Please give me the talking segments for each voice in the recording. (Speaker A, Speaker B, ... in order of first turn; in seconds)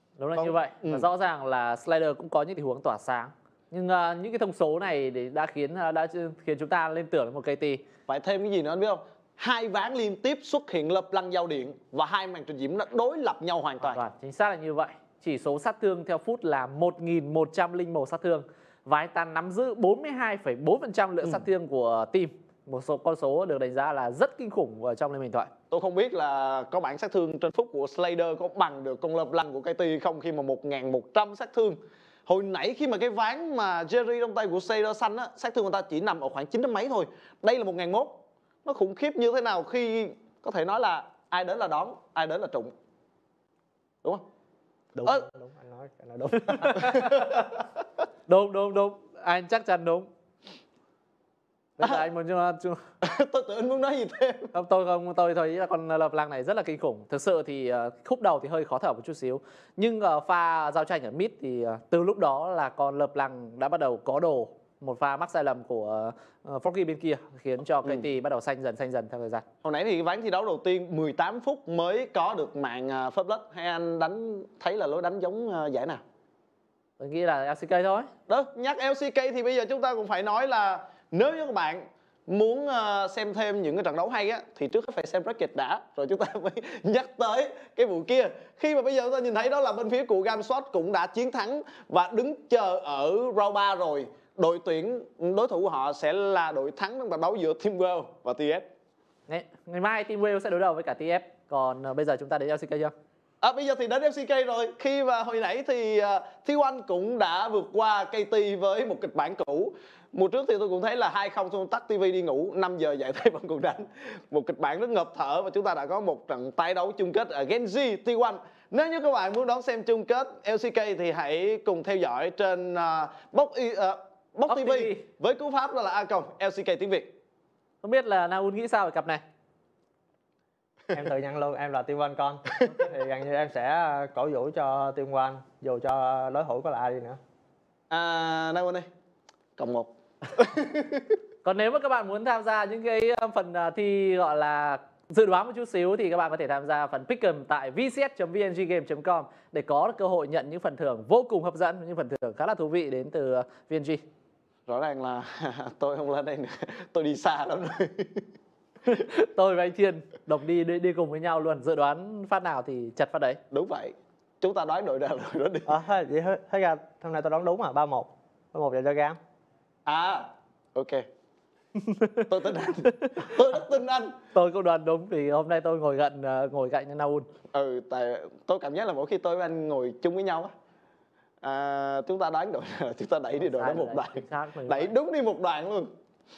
Speaker A: 0.2-7.8, 13.8-25.5, 46.7-47.4, 48.3-50.1, 51.8-52.8, 54.5-69.4, 77.0-78.1, 99.3-102.9, 124.5-125.0, 127.8-129.2, 141.4-154.0, 158.9-163.4, 174.3-177.3, 183.3-184.9
Speaker B: 0.3-1.1, 8.1-14.0, 25.7-42.7, 46.6-47.3, 53.0-54.5, 69.6-76.0, 78.3-98.7, 103.4-127.1, 137.9-138.9, 139.6-141.2, 154.7-158.2, 163.5-165.7, 169.8-171.1, 172.3-174.2, 177.5-180.5, 181.4-185.9
Speaker C: 44.9-46.9, 130.9-137.2, 165.7-169.2